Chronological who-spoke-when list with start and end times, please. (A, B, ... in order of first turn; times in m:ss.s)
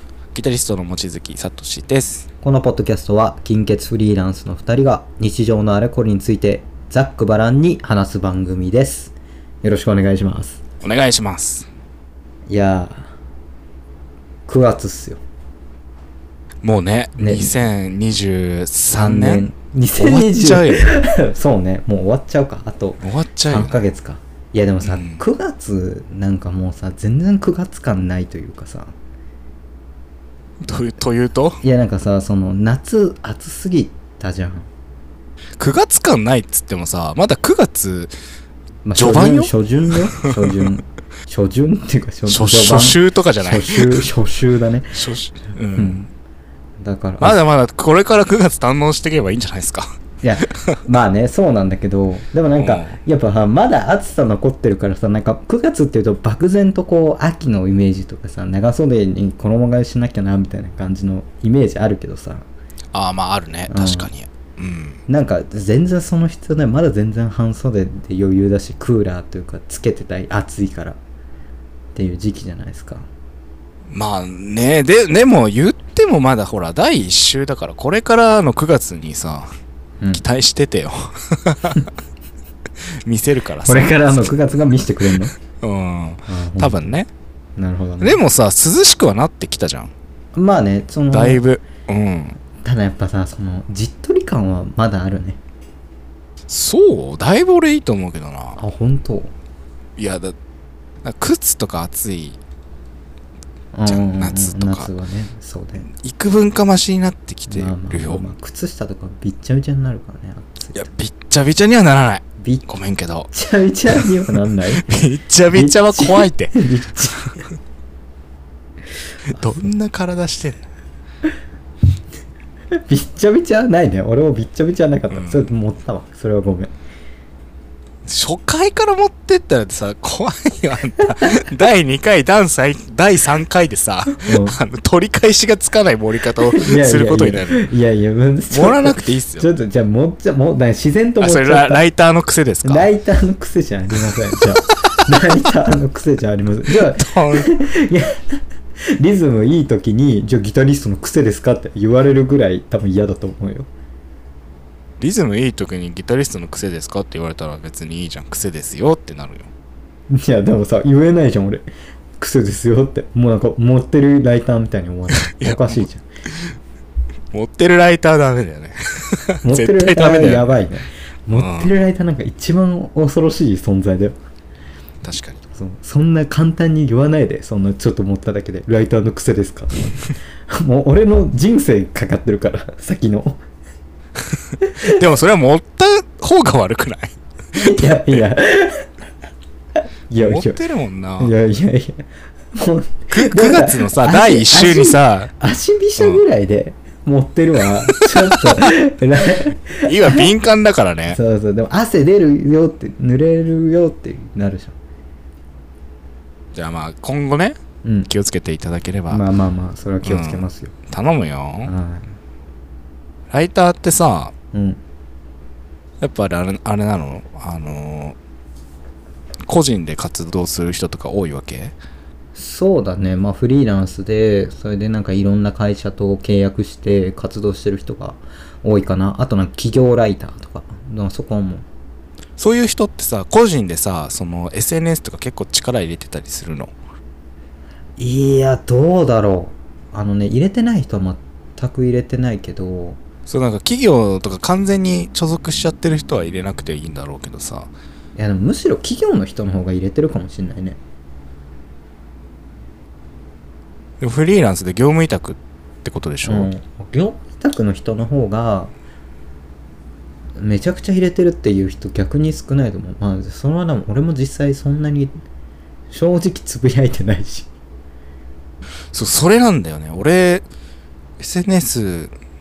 0:00.3-0:02.3 A
0:02.4-0:10.6 B
0:10.8-0:11.7 A
0:12.5-0:13.1 B
0:14.5-0:15.2 B
0:16.6-0:20.9 A
0:17.2-0:17.5 B
0:18.9-0:28.9 B
0:23.0-0:23.8 A
0:24.8-0:25.2 A
0:30.6-0:31.6 A
0:31.6-0:34.7 B
0:35.6-0:38.1 A
0:38.8-0:45.0 B
0:38.9-0:40.7 A
0:42.3-0:44.1 A
0:44.9-0:46.0 A
0:45.8-0:46.1 B
0:46.8-0:47.4 B
0:47.2-0:49.9 A
0:50.2-1:02.5 B
0:52.6-0:53.0 A
1:02.9-1:05.0 A
1:03.7-1:04.1 B
1:05.1-1:11.0 B
1:11.9-1:13.1 B
1:13.9-1:19.5 A
1:20.1-1:21.9 A
1:23.0-1:24.3 A
1:23.6-1:25.3 B
1:25.1-1:27.1 A
1:26.3-1:26.9 B
1:27.6-1:28.2 B
1:28.0-1:29.9 A
1:30.3-1:31.4 B
1:31.1-1:32.4 A
1:32.6-1:35.4 B
1:36.5-1:38.6 A
1:38.6-1:39.3 B
1:40.0-1:40.3 A
1:41.0-1:42.4 A
1:43.7-1:45.9 B
1:43.8-1:44.9 A
1:45.9-1:48.2 A
1:47.5-1:50.8 B
1:50.7-1:53.3 A
1:52.4-1:52.7 B
1:53.3-1:54.8 B
1:54.7-1:57.0 A
1:55.5-1:57.4 B
1:59.3-2:00.6 A
1:59.3-1:59.7 B
2:02.7-2:06.7 B
2:05.1-2:05.5 A
2:08.0-2:17.6 A
2:14.2-2:14.6 B
2:16.5-2:21.8 B
2:18.5-2:19.5 A
2:21.2-2:22.9 A
2:22.6-2:28.2 B
2:26.7-2:27.5 A
2:29.0-2:33.7 B
2:35.0-2:39.5 A
2:40.1-2:41.6 B
2:42.2-2:46.0 B
2:45.2-2:46.5 A
2:47.3-2:50.5 A
2:49.4-2:54.2 B
2:51.3-2:51.7 A
2:55.0-2:55.4 A
2:55.5-3:03.4 B
3:04.3-3:08.2 A
3:04.7-3:05.0 B
3:07.6-3:08.9 B
3:10.1-3:10.6 B
3:10.2-3:11.3 A
3:11.2-3:20.3 B
3:13.1-3:15.3 A
3:18.0-3:18.7 A
3:19.8-3:21.2 A
3:21.1-3:24.7 B
3:26.5-3:27.6 A
3:27.8-3:28.1 B
3:28.1-3:29.2 A
3:29.1-3:30.7 B
3:30.0-3:31.7 A
3:31.6-3:32.1 B
3:33.3-3:34.3 A
3:34.5-3:34.8 B
3:36.0-3:38.2 A
3:39.5-3:41.7 A
3:42.3-3:51.6 B
3:52.4-3:56.7 A
3:58.0-4:03.0 B
4:03.3-4:07.7 A
4:08.2-4:10.8 B
4:14.0-4:16.5 A
4:16.2-4:18.7 B
4:20.4-4:25.1 B
4:25.9-4:27.5 B
4:28.9-4:30.4 A
4:31.2-4:32.1 A